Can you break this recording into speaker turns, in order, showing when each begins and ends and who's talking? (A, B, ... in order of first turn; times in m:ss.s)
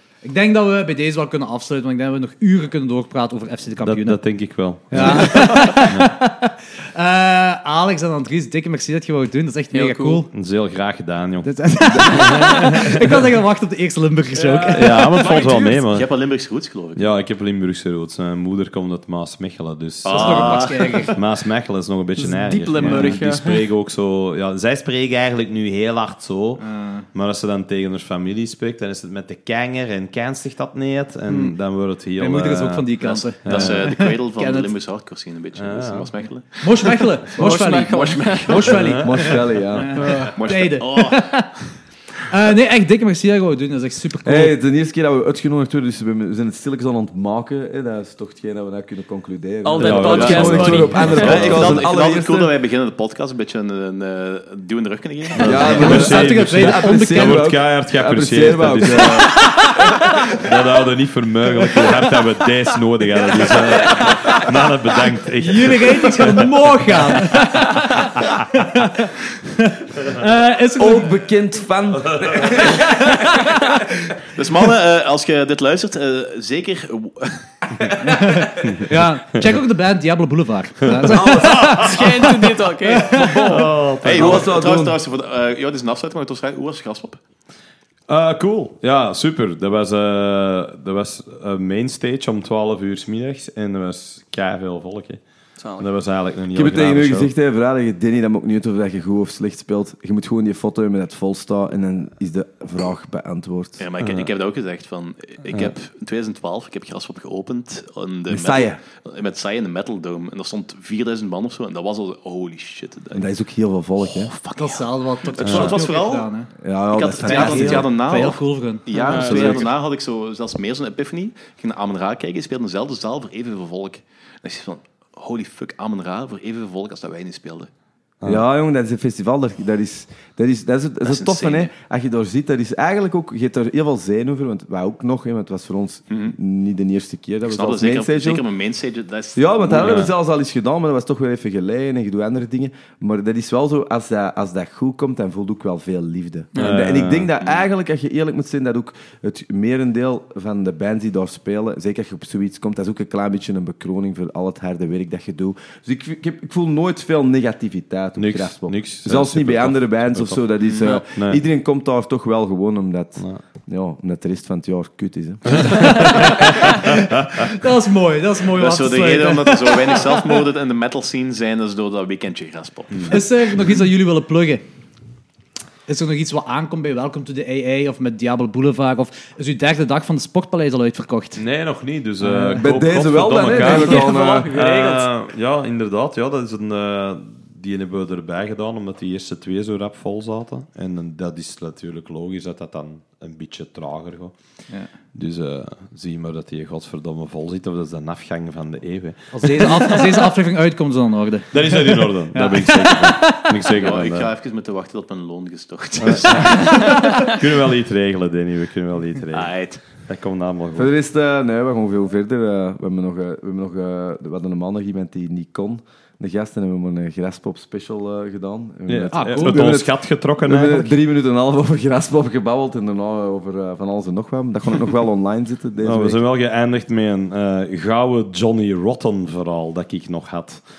0:00.2-0:04.2 A
0:03.8-0:06.1 B
0:04.9-0:10.3 A
0:09.7-0:10.3 C
0:10.3-0:12.8 B
0:11.4-0:15.1 A
0:14.4-0:15.8 C
0:14.7-0:16.1 B
0:15.9-0:17.1 D
0:17.0-0:32.9 B
0:20.0-0:21.1 D
0:20.1-0:21.2 A
0:22.2-0:23.6 C
0:26.6-0:27.0 A
0:32.2-0:34.7 A
0:33.0-0:38.9 D
0:33.4-0:34.0 B
0:35.6-0:36.1 B
0:36.6-0:41.5 A
0:37.3-0:38.8 C
0:38.9-0:40.1 E
0:40.0-0:40.3 C
0:40.3-0:41.4 D
0:42.3-0:44.6 A
0:44.2-0:52.5 E
0:49.6-0:51.6 C
0:49.8-0:51.8 B
0:50.2-0:50.4 D
0:51.2-0:56.0 D
0:55.4-0:59.4 E
0:55.4-0:59.5 B
0:55.7-0:57.5 A
1:00.3-1:06.4 B
1:03.8-1:04.3 A
1:05.4-1:09.1 A
1:10.2-1:11.2 A
1:10.7-1:13.2 E
1:12.6-1:14.2 A
1:14.3-1:17.9 D
1:18.0-1:23.6 A
1:21.0-1:21.9 B
1:21.0-1:21.8 E
1:21.2-1:23.7 C
1:23.4-1:24.6 B
1:24.0-1:27.2 D
1:24.1-1:25.0 E
1:28.1-1:35.2 B
1:35.6-1:35.9 C
1:35.8-1:37.3 B
1:36.5-1:43.8 E
1:43.8-1:53.3 D
1:44.0-1:44.3 B
1:48.3-1:48.8 E
1:53.1-1:54.3 E
1:54.0-1:56.3 D
1:54.6-1:56.5 A
1:55.4-1:55.7 B
1:56.6-1:57.9 E
1:56.9-2:07.7 D
1:57.2-1:58.8 A
1:58.9-1:59.7 E
1:59.0-1:59.7 C
2:08.2-2:18.4 E
2:11.0-2:11.7 D
2:17.5-2:20.0 D
2:19.4-2:46.3 E
2:19.7-2:20.1 B
2:26.5-2:26.8 C
2:26.6-2:27.3 B
2:38.2-2:41.4 B
2:40.6-2:41.0 D
2:45.5-2:47.1 B
2:45.8-2:50.4 A
2:48.6-2:53.2 D
2:53.1-2:54.6 A
2:55.9-3:01.4 A
3:01.4-3:14.3 B
3:02.2-3:02.6 A
3:02.6-3:04.5 E
3:03.5-3:05.1 C
3:15.1-3:20.1 B
3:19.3-3:23.6 A
3:21.5-3:24.3 B
3:23.7-3:27.3 D
3:26.0-3:30.9 B
3:29.3-3:29.8 D
3:30.7-3:46.2 E
3:38.9-3:40.9 B
3:39.1-3:39.7 A
3:45.8-3:50.6 B